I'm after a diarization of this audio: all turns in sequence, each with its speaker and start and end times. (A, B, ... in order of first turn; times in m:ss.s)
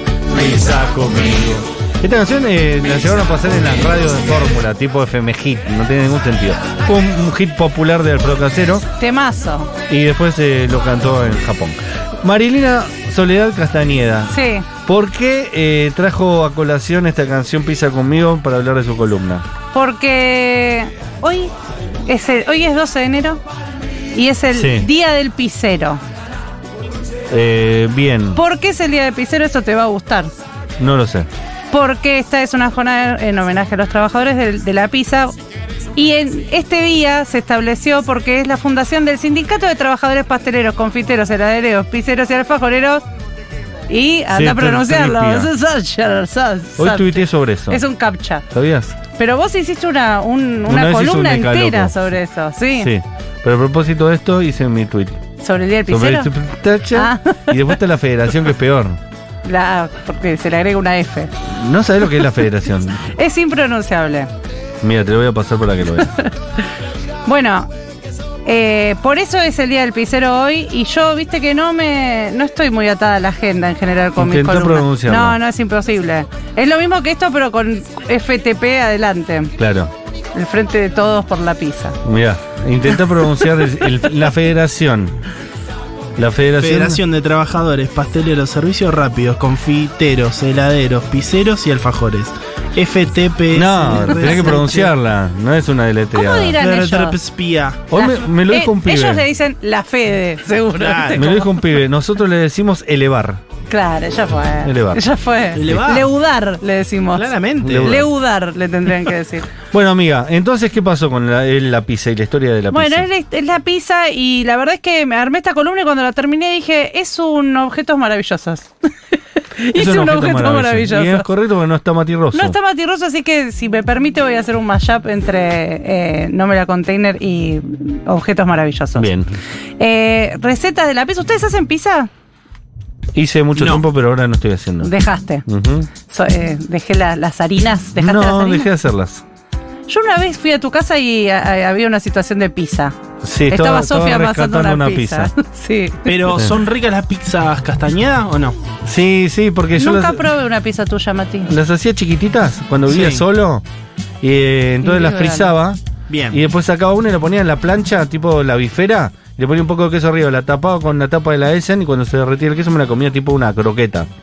0:00.3-0:08.9 A
0:09.0-0:09.7 B
0:09.9-0:19.5 A
0:14.3-0:14.7 B
0:19.7-0:21.5 B
0:22.1-0:23.4 B
0:24.1-0:26.0 B
0:24.5-0:24.9 A
0:27.3-0:28.4 A
0:28.4-0:30.3 B
0:30.8-0:31.3 A
0:31.7-0:35.3 B
0:36.0-0:43.0 B
0:43.9-0:48.4 B
0:44.3-0:45.5 A
0:46.8-0:47.8 A
0:48.5-0:49.0 A
0:49.2-0:52.9 B
0:50.7-0:52.0 A
0:52.8-0:55.2 A
0:55.4-0:56.3 B
0:55.9-0:59.0 A
0:56.9-0:57.6 B
0:59.4-1:01.3 B
1:01.5-1:03.1 A
1:03.1-1:04.3 B
1:04.8-1:06.2 A
1:07.2-1:07.7 B
1:08.5-1:19.5 B
1:14.2-1:15.4 A
1:19.6-1:19.9 A
1:20.4-1:22.0 B
1:22.0-1:25.2 A
1:26.2-1:27.0 A
1:26.6-1:34.9 C
1:33.5-1:36.6 A
1:36.1-1:37.2 B
1:36.6-1:37.8 C
1:37.9-1:39.2 A
1:38.0-1:41.6 B
1:40.8-1:41.2 C
1:41.1-1:43.4 A
1:43.7-1:47.3 B
1:44.6-1:45.2 A
1:45.6-1:46.1 C
1:45.7-1:46.0 A
1:47.2-1:48.0 C
1:47.6-1:48.1 A
1:47.8-1:49.5 B
1:49.7-1:53.1 A
1:52.7-1:58.7 B
1:59.6-2:01.3 B
1:59.7-2:02.6 A
2:02.3-2:09.1 B
2:09.0-2:09.4 A
2:09.8-2:12.1 B
2:13.2-2:14.9 A
2:13.6-2:13.8 C
2:14.8-2:15.5 B
2:15.5-2:15.9 A
2:16.1-2:18.7 B
2:18.0-2:19.2 A
2:19.9-2:22.9 B
2:23.2-2:25.3 A
2:23.5-2:26.3 B
2:26.1-2:28.6 C
2:28.8-2:30.2 A
2:29.8-2:31.5 B
2:31.5-2:33.6 A
2:32.9-2:33.2 C
2:34.2-2:35.8 A
2:34.8-2:35.5 B
2:36.1-2:36.4 C
2:36.3-2:44.1 A